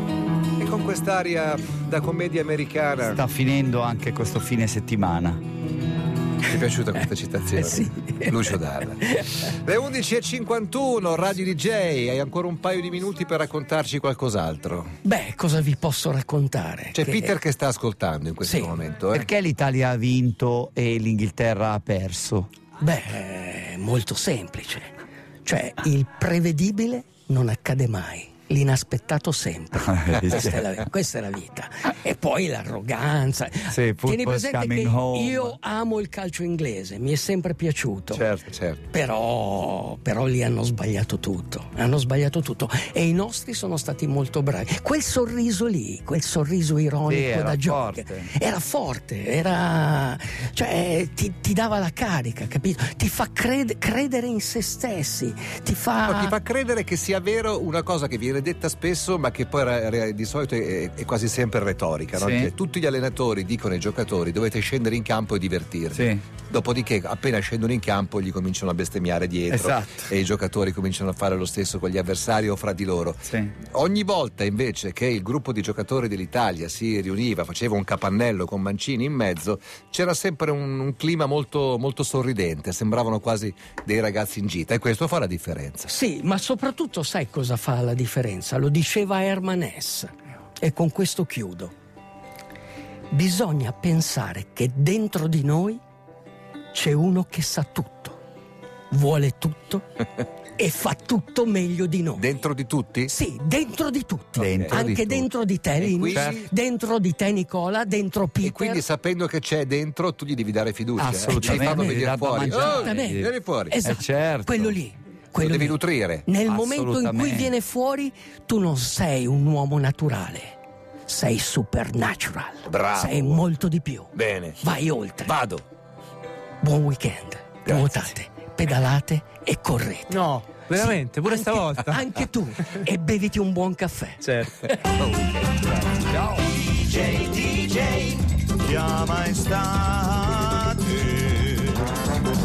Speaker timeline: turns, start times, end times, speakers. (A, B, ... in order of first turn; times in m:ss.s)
0:00.6-0:03.2 A
0:03.0-0:05.4 B
0:06.4-0:14.9 A
0:07.5-0:09.4 C
0:15.0-0:17.3 C
0:17.0-0:19.3 A
0:18.4-0:18.8 C
0:19.1-0:22.5 B
0:22.8-0:38.2 C
0:29.8-0:30.7 B
0:33.7-0:35.6 B
0:38.1-0:38.5 B
0:38.5-0:38.8 A
0:38.9-0:56.4 C
0:47.1-0:48.3 B
0:56.1-1:25.9 A
1:02.1-1:02.5 B
1:05.9-1:06.2 B
1:09.5-1:10.1 B
1:13.2-1:13.5 B
1:25.9-1:31.7 C
1:33.1-1:35.8 C
1:36.7-1:38.2 C
1:38.9-1:39.9 C
1:40.6-1:42.4 C
1:42.2-1:43.1 A
1:43.1-1:48.8 C
1:44.4-1:45.0 B
1:44.4-1:45.3 A
1:45.8-1:46.5 A
1:46.1-1:46.4 B
1:48.4-1:53.8 A
1:51.0-1:54.8 B
1:51.3-2:05.4 C
1:55.4-1:56.3 A
1:56.5-1:57.5 B
2:02.6-2:03.4 A
2:04.1-2:04.6 A
2:05.2-2:05.6 A
2:06.6-2:14.3 C
2:07.6-2:08.0 A
2:10.1-2:12.0 D
2:14.2-2:14.6 D
2:14.6-2:15.7 A
2:15.9-2:21.8 B